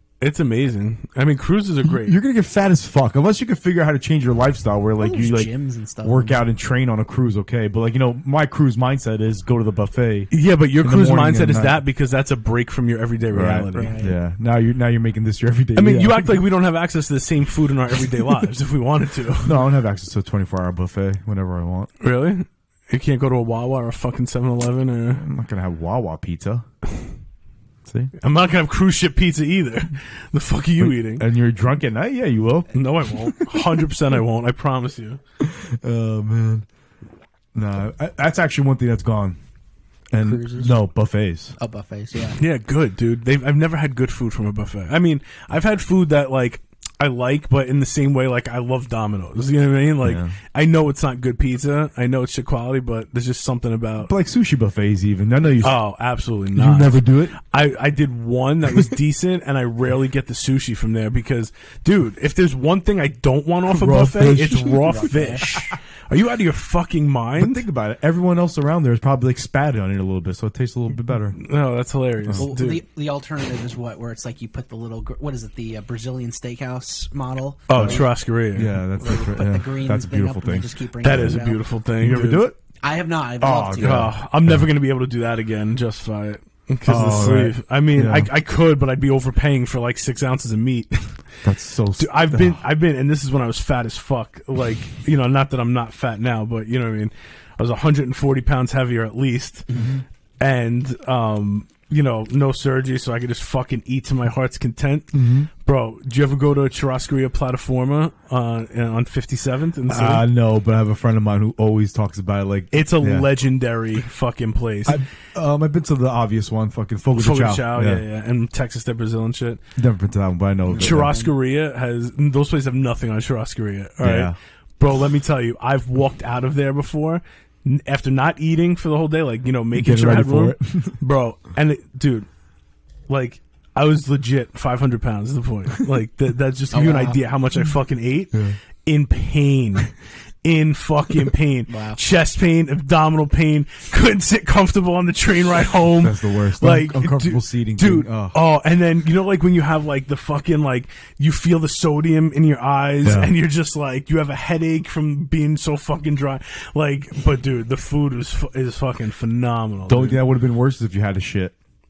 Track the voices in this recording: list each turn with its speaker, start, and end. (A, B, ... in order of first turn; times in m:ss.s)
0:00.2-0:02.2 A
0:01.9-0:05.5 B
0:05.0-0:06.4 C
0:06.0-0:10.3 B
0:10.3-0:13.9 A
0:10.8-0:11.8 B
0:13.3-0:16.4 B
0:13.7-0:14.1 C
0:15.8-0:19.6 A
0:19.4-0:21.9 B
0:22.0-0:25.2 A
0:25.1-0:26.6 B
0:27.8-0:28.1 B
0:28.2-0:31.2 A
0:30.8-0:33.6 B
0:32.7-0:35.2 A
0:35.4-0:36.6 B
0:37.5-0:39.4 B
0:40.1-0:41.6 B
0:40.2-0:40.7 C
0:41.6-0:42.4 C
0:42.4-0:54.1 A
0:50.0-0:50.3 B
0:54.0-0:55.8 B
0:55.6-1:07.6 A
0:56.5-0:57.4 B
1:03.7-1:05.0 B
1:04.5-1:05.7 C
1:07.4-1:11.4 B
1:11.4-1:12.8 A
1:12.4-1:18.1 C
1:17.7-1:18.8 A
1:17.7-1:21.4 B
1:19.0-1:21.6 C
1:21.0-1:22.5 A
1:22.0-1:22.6 B
1:22.8-1:24.1 C
1:23.4-1:24.7 B
1:23.8-1:31.1 A
1:26.8-1:28.3 B
1:31.4-1:32.6 B
1:32.0-1:39.7 A
1:39.7-1:40.0 B
1:40.4-1:50.2 A
1:45.1-1:45.5 B
1:49.9-1:53.3 B
1:52.7-1:55.0 A
1:54.8-1:58.0 B
1:57.1-1:59.6 A
1:59.8-2:01.2 B
2:00.7-2:01.3 C
2:00.8-2:12.3 A
2:04.0-2:04.4 B
2:09.7-2:11.0 B
2:13.1-2:19.9 A
2:16.7-2:17.2 C
2:20.4-2:40.2 A
2:21.7-2:22.0 C
2:26.0-2:28.4 B
2:33.0-2:33.3 B
2:39.9-2:41.5 B